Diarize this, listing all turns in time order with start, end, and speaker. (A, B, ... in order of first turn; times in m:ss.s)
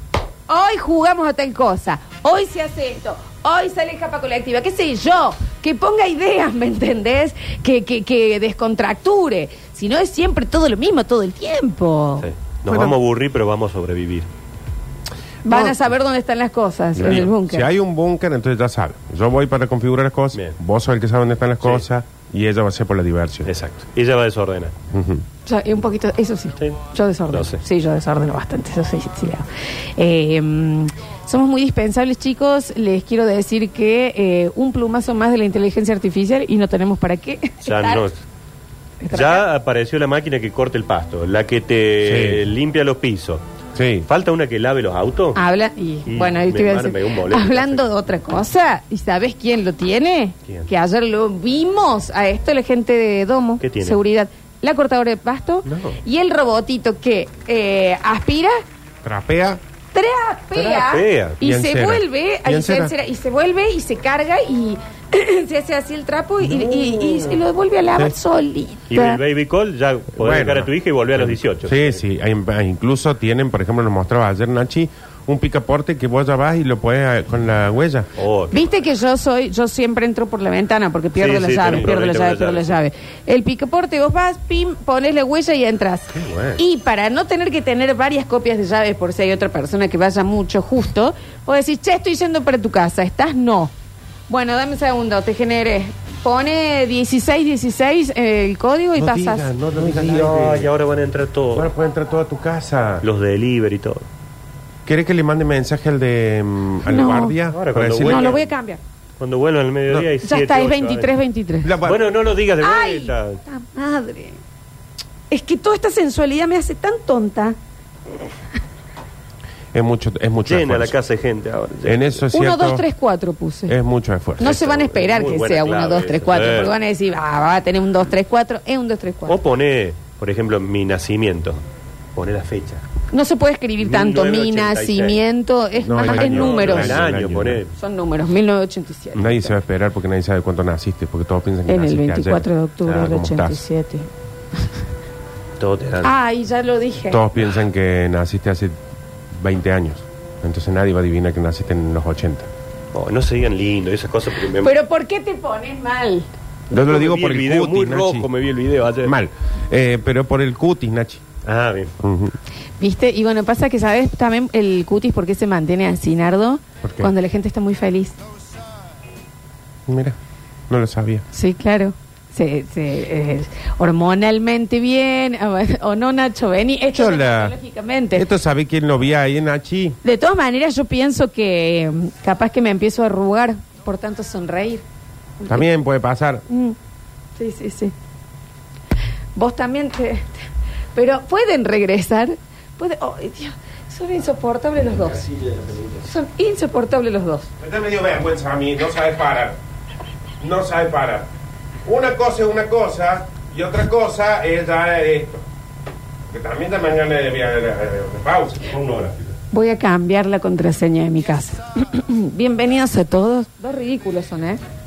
0:00.5-0:12.3 A
0:12.2-0:14.3 B
0:12.7-0:13.0 C
0:15.4-0:17.7 A
0:15.4-0:15.8 C
0:17.0-0:23.5 C
0:17.0-0:17.3 B
0:23.4-0:24.7 B
0:24.9-0:25.2 C
0:25.4-0:38.0 A
0:27.3-0:27.6 B
0:37.6-0:38.2 B
0:39.0-0:39.5 A
0:39.1-0:43.4 B
0:42.0-0:42.4 C
0:43.7-0:44.1 C
0:44.0-0:45.4 B
0:45.4-0:58.6 A
0:46.1-0:47.9 B
0:53.6-0:54.0 B
0:55.6-0:56.0 B
0:59.0-0:59.6 C
0:59.9-1:09.2 A
1:00.5-1:01.4 B
1:01.4-1:02.9 C
1:06.4-1:07.5 B
1:08.9-1:12.0 B
1:10.2-1:18.1 C
1:18.2-1:18.8 B
1:18.5-1:33.7 A
1:21.2-1:22.8 B
1:26.1-1:26.6 B
1:34.3-1:39.5 A
1:39.0-1:40.7 C
1:39.7-1:41.7 B
1:41.5-1:43.0 C
1:43.0-1:44.0 B
1:44.8-1:48.4 C
1:46.8-1:47.4 A
1:47.5-1:48.5 B
1:48.0-1:48.8 A
1:49.2-1:51.1 B
1:50.2-1:51.7 A
1:51.6-1:52.0 C
1:51.8-1:53.4 B
1:52.6-1:54.4 A
1:55.3-1:57.6 A
1:59.7-2:00.9 C
2:00.4-2:02.2 B
2:01.8-2:02.9 C
2:02.3-2:03.8 A
2:03.7-2:04.6 C
2:04.4-2:06.7 B
2:04.4-2:09.4 A
2:09.2-2:11.6 B
2:12.1-2:12.8 B
2:13.1-2:17.0 A
2:13.8-2:15.2 B
2:15.8-2:17.6 C
2:16.0-2:17.7 B
2:17.8-2:19.6 A
2:19.2-2:23.6 C
2:21.6-2:24.1 A
2:25.6-2:26.2 B
2:26.0-2:27.2 A
2:27.1-2:28.7 C
2:29.4-2:32.5 C
2:32.9-2:34.8 B
2:34.6-2:36.3 A
2:36.7-2:38.3 C
2:36.7-2:39.1 B
2:39.0-2:41.2 C
2:41.4-2:41.9 B
2:42.0-2:42.4 C
2:42.8-2:48.2 A
2:46.8-2:47.1 C
2:49.9-2:50.2 C
2:50.7-2:51.2 C
2:51.3-2:58.2 A
2:56.9-2:57.5 C
2:58.1-3:00.0 C
3:00.0-3:04.8 A
3:05.4-3:05.6 A
3:05.5-3:06.4 C
3:06.5-3:06.8 A
3:07.4-3:07.9 A
3:09.3-3:17.5 A
3:17.6-3:19.6 C
3:20.4-3:21.3 C
3:21.8-3:25.4 C
3:26.3-3:29.1 C
3:29.5-3:34.6 A